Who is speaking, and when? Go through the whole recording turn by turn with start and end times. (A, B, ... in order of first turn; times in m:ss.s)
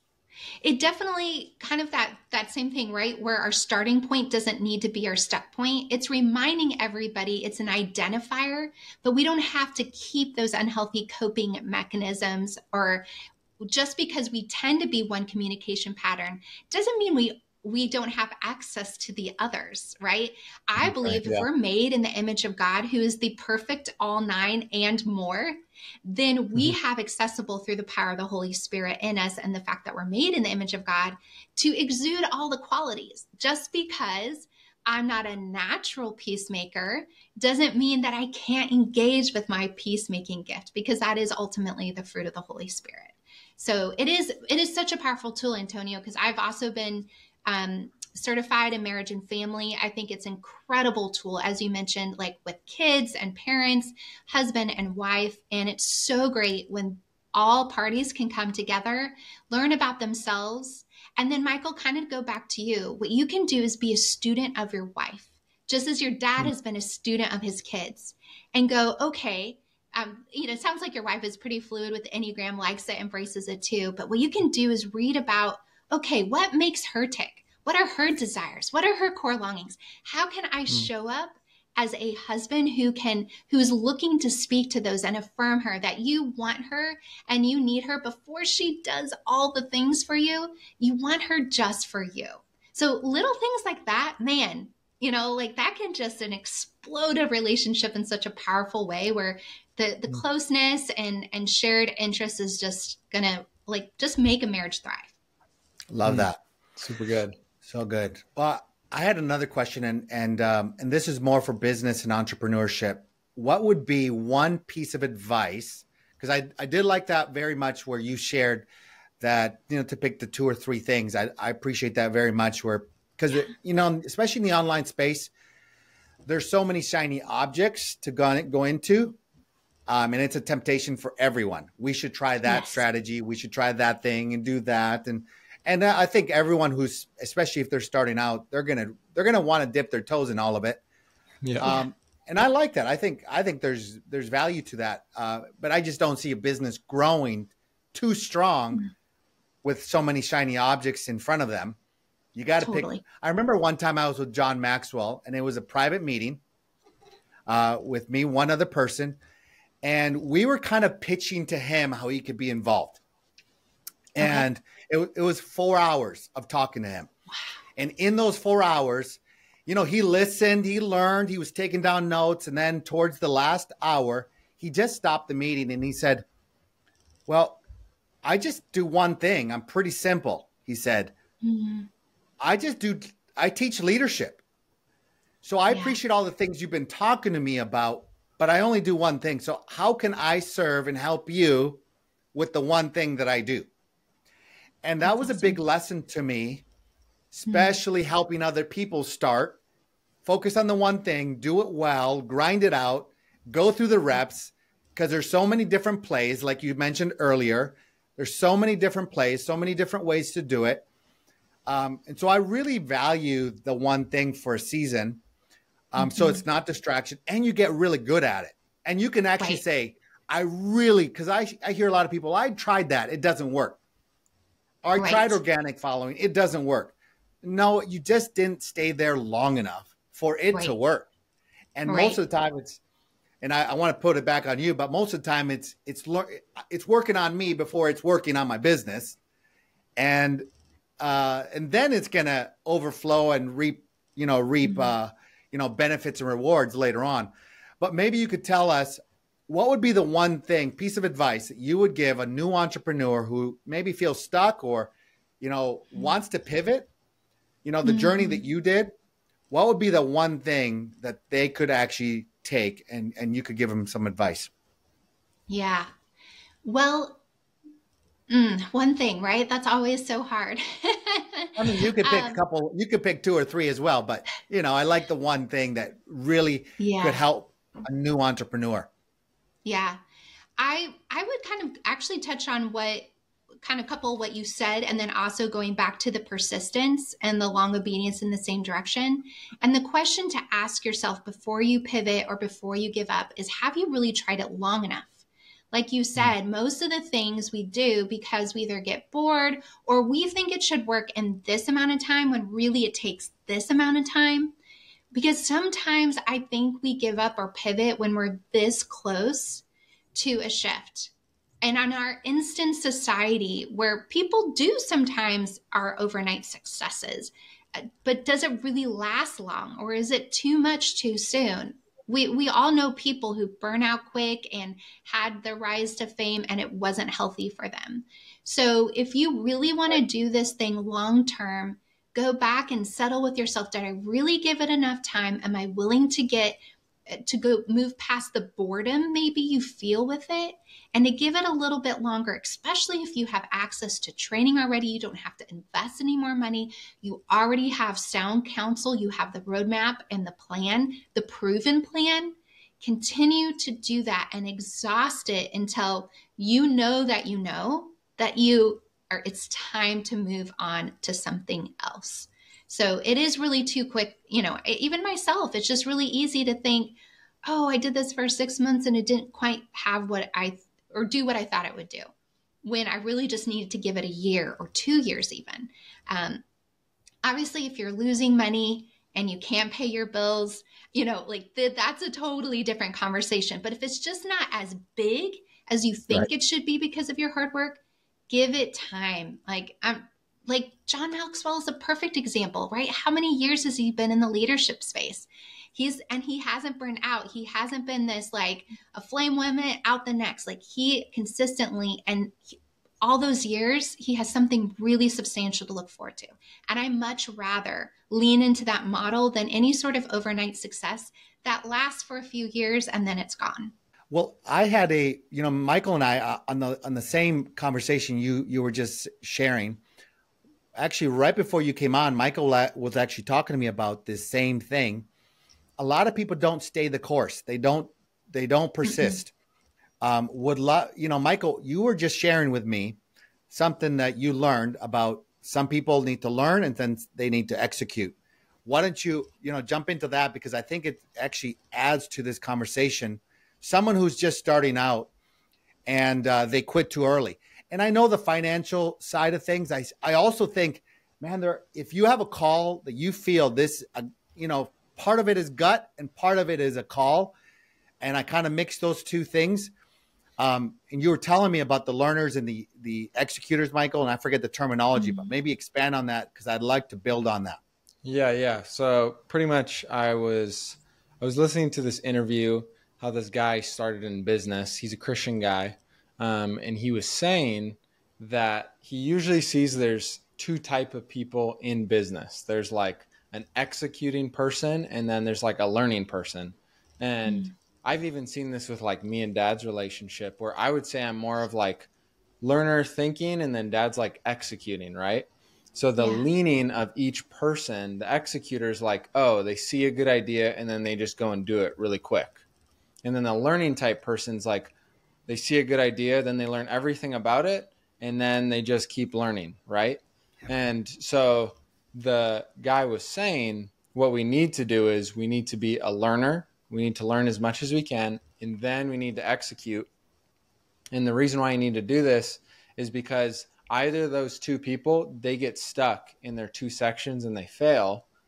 0:00.6-0:13.1 A
0:13.6-1:45.1 A
0:20.8-0:21.5 B
1:45.9-1:46.4 C
1:46.0-1:47.4 B
1:47.6-1:58.7 C
1:59.2-2:05.3 C
2:06.2-2:09.2 C
2:09.9-2:20.8 C
2:12.5-2:12.8 A
2:21.4-2:21.7 B
2:21.6-2:28.8 C
2:29.6-2:31.8 C
2:32.4-2:36.4 C
2:32.6-2:33.0 A
2:37.5-2:39.2 C
2:39.8-2:43.0 C
2:44.1-2:47.1 C
2:44.2-2:44.5 A
2:47.8-2:56.2 C
2:57.3-2:57.6 C
2:58.2-3:01.2 C
3:01.4-3:01.9 A
3:02.4-3:04.4 C
3:05.4-3:11.8 C
3:05.7-3:06.0 A
3:12.3-3:13.7 C
3:14.8-3:16.6 C
3:15.0-3:15.6 A
3:17.3-3:19.6 C
3:17.5-3:17.7 A
3:20.2-3:30.9 C
3:31.7-3:35.2 C
3:35.9-3:43.8 C
3:36.0-3:36.4 A
3:44.8-3:51.1 C
3:45.0-3:45.4 A
3:51.8-3:52.8 C
3:51.9-3:52.2 A
3:53.4-3:59.2 C
4:00.0-4:00.5 C
4:01.0-4:16.9 C
4:04.7-4:04.9 A
4:17.6-4:18.9 C
4:17.8-4:18.4 A
4:19.5-4:24.5 C
4:25.5-4:25.9 A
4:26.6-4:27.2 A
4:28.3-4:32.4 A
4:31.6-4:38.9 C
4:36.8-4:37.2 A
4:39.6-4:40.0 A
4:40.6-4:43.1 A
4:43.6-4:55.2 A
4:55.7-5:04.5 A
5:05.1-6:12.1 A
6:12.6-6:16.4 A
6:17.2-6:53.7 A
6:54.1-6:59.8 C
7:00.8-7:05.1 C
7:05.8-7:09.3 C
7:08.8-7:09.2 A
7:10.0-7:13.0 C
7:13.5-7:25.1 C
7:25.9-7:37.3 C
7:38.0-7:39.7 C
7:40.4-7:47.6 C
7:45.0-7:45.3 A
7:48.0-8:11.9 B
8:07.2-8:07.5 A
8:12.4-8:22.4 B
8:16.0-8:16.3 A
8:23.0-8:24.7 B
8:25.3-8:39.9 B
8:40.9-8:48.0 B